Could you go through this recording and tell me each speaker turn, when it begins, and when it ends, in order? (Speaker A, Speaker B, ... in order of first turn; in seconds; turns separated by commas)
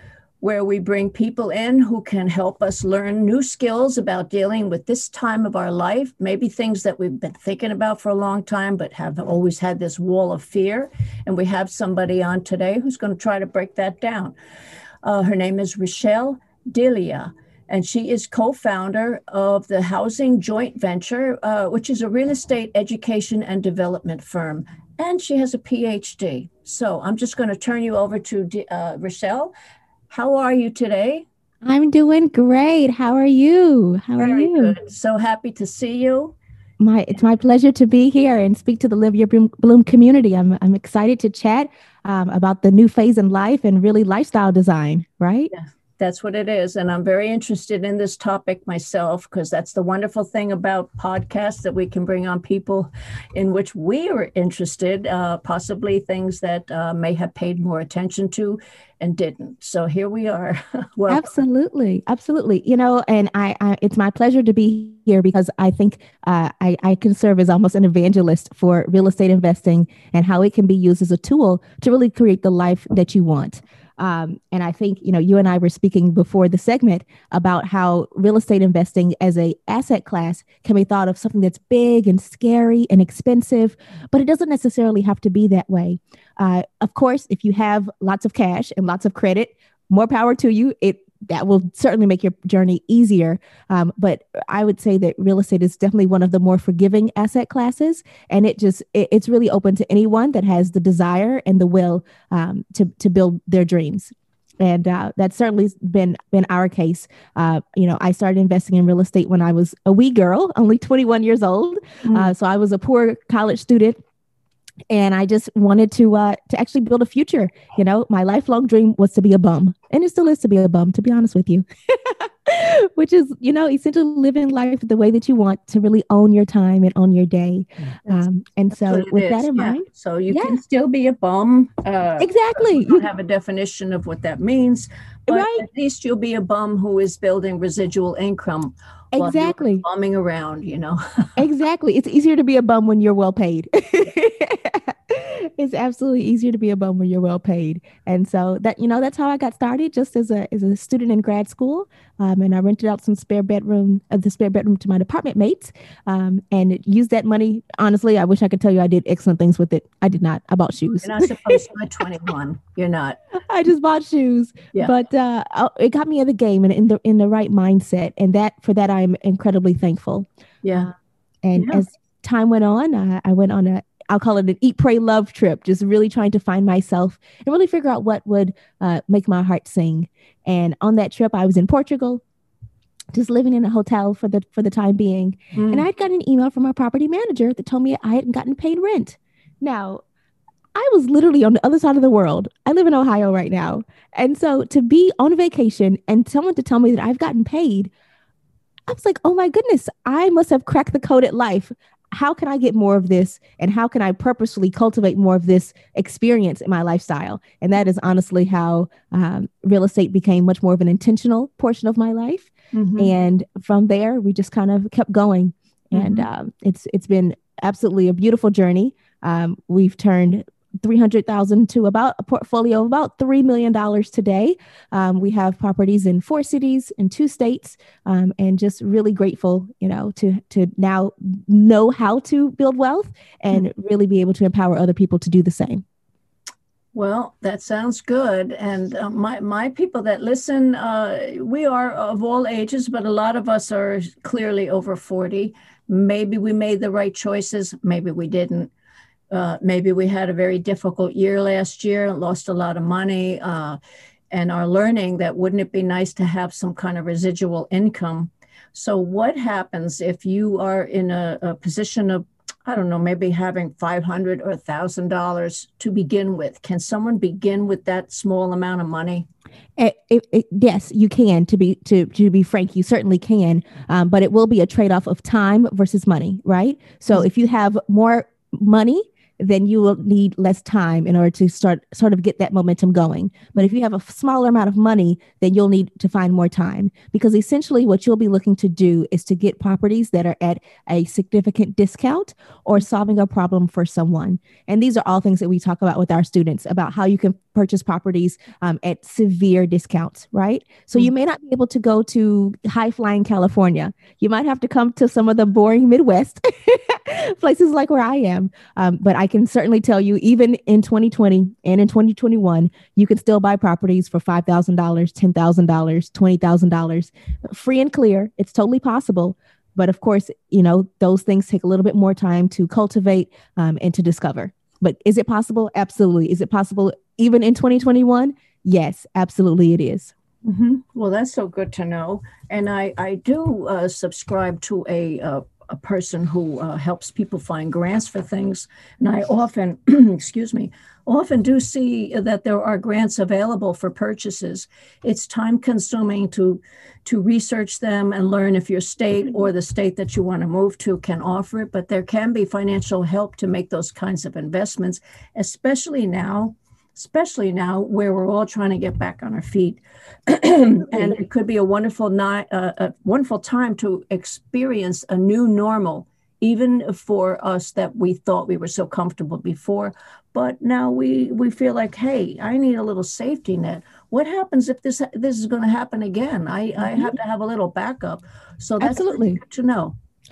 Speaker A: 0.4-14.3, Speaker A: 15.0-29.5, Speaker A: 30.1-31.2, Speaker B: 31.6-34.7, Speaker A: 34.2-36.4, Speaker B: 36.8-45.5, Speaker A: 45.5-61.3, Speaker B: 61.1-114.0, Speaker A: 112.0-112.3, Speaker B: 114.9-130.6, Speaker A: 128.1-141.3, Speaker B: 132.2-133.1, Speaker B: 135.3-135.6, Speaker B: 139.1-139.8, Speaker B: 141.4-161.6, Speaker A: 161.0-163.2, Speaker B: 163.5-170.3, Speaker A: 170.6-170.9, Speaker B: 171.4-182.2, Speaker A: 171.6-171.8, Speaker B: 183.1-190.0, Speaker A: 185.5-185.8, Speaker B: 190.7-197.9, Speaker B: 198.9-235.8, Speaker A: 212.7-213.1, Speaker A: 215.9-216.3, Speaker A: 236.9-248.7, Speaker A: 249.3-253.8, Speaker A: 254.3-269.3, Speaker B: 269.8-330.1, Speaker A: 330.4-379.9, Speaker B: 376.8-377.1, Speaker B: 378.8-379.4